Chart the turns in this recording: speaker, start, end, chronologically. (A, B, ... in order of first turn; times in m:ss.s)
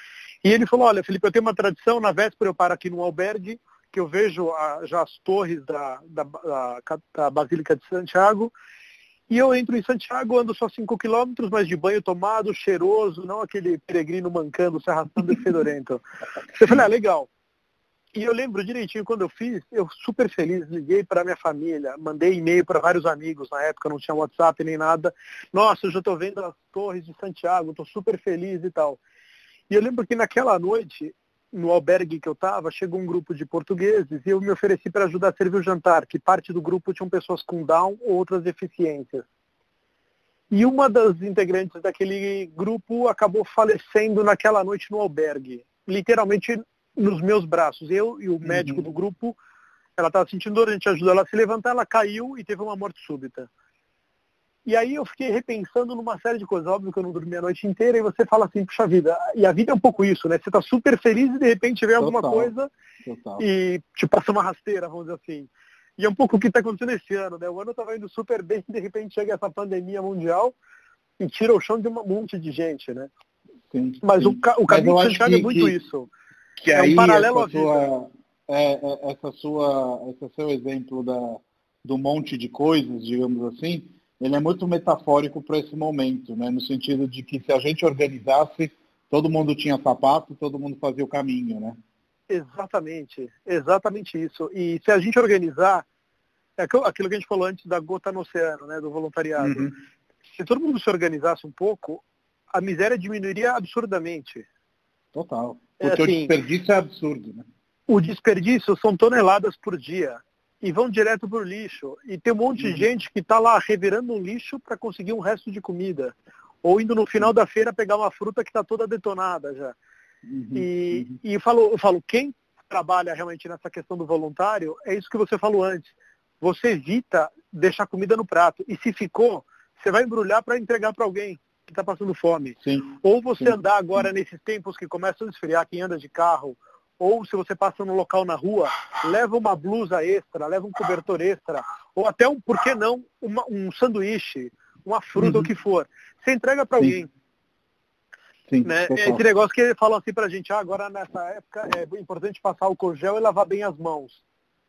0:00.4-0:08.5 A
0:09.3-0:17.3 A
0:18.1-0:29.0 A
0:29.7-0:39.3 A
0:40.5-0:49.4 A
0:48.4-0:48.8 B
0:50.0-0:53.5 A
0:54.7-1:02.7 A
1:02.0-1:02.5 B
1:03.0-1:03.4 B
1:03.4-1:10.6 A
1:11.2-1:13.1 A
1:13.7-1:15.8 B
1:14.0-1:16.1 A
1:16.6-1:31.8 B
1:16.7-1:17.8 A
1:32.3-1:35.8 A
1:36.6-1:39.7 A
1:39.4-1:39.8 B
1:40.3-1:44.5 A
1:45.1-1:47.5 B
1:45.8-1:46.3 A
1:47.9-1:59.8 A
1:52.6-1:52.9 B
2:00.3-2:01.2 B
2:00.6-2:27.1 A
2:12.6-2:13.6 B
2:25.2-2:25.5 B
2:28.5-2:29.2 B
2:28.6-2:34.2 A